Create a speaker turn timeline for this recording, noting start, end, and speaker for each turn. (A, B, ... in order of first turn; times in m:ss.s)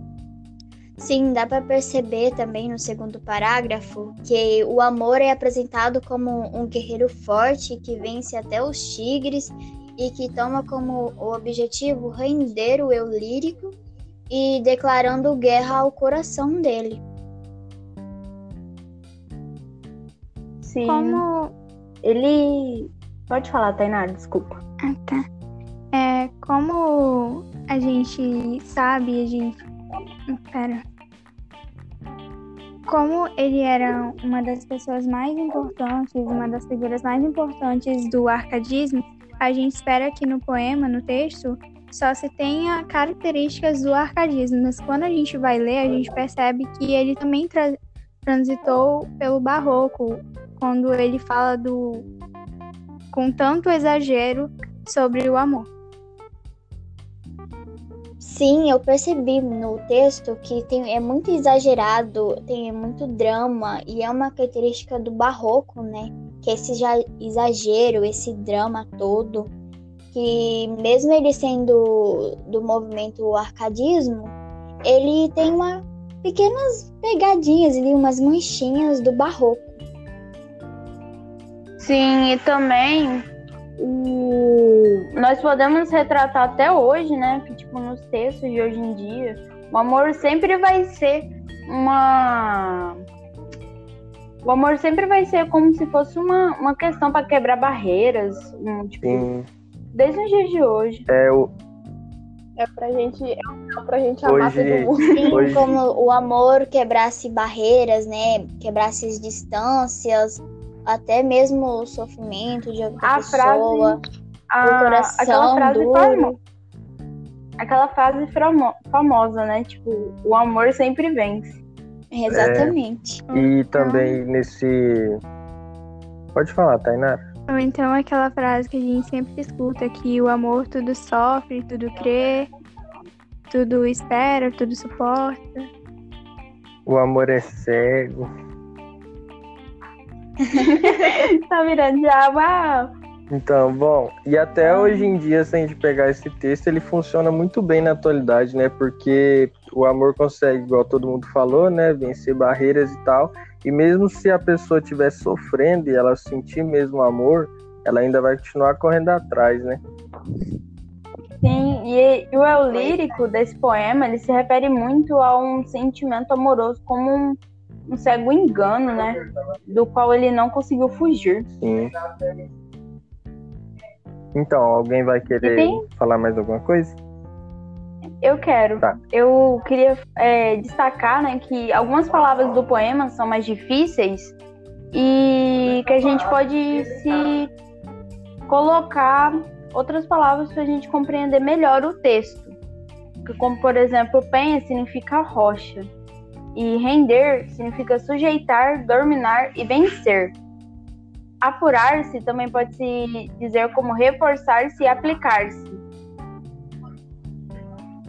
0:01.0-0:13.7 A
0:14.3-0:17.0 A
0:20.6-0:21.2 B
0:20.9-0:21.5 C
0:22.0-0:24.6 B
0:24.8-0:25.2 C
0:25.9-0:29.6 C
0:30.3-0:30.8 C
0:32.9-0:52.0 C
0:53.1-0:55.7 C
0:58.2-1:09.5 A
1:10.1-1:19.8 A
1:21.8-1:23.2 B
1:23.8-1:33.0 B
1:34.4-1:39.3 B
1:39.0-1:39.5 D
1:39.9-1:41.1 B
1:41.1-1:41.5 D
1:42.6-1:45.4 E
1:44.2-1:45.7 D
1:45.1-1:54.0 A
1:53.0-1:54.0 B
1:54.5-1:56.4 B
1:54.6-1:56.3 A
1:57.6-2:01.6 B
2:02.1-2:03.2 A
2:02.3-2:02.8 D
2:03.3-2:05.2 D
2:03.8-2:04.2 B
2:06.3-2:07.2 D
2:07.5-2:12.5 C
2:13.5-2:15.7 C
2:16.8-2:18.3 D
2:20.6-2:22.9 B
2:23.3-2:39.8 D
2:24.8-2:25.1 B
2:41.4-2:49.2 B
2:49.7-2:51.5 B
2:51.6-2:51.9 D
2:54.3-2:57.0 D
2:55.4-2:55.8 B
2:58.2-3:04.4 B
3:04.9-3:07.5 B
3:08.5-3:12.6 B
3:13.2-3:15.9 B
3:16.6-3:20.3 B
3:21.4-3:25.8 B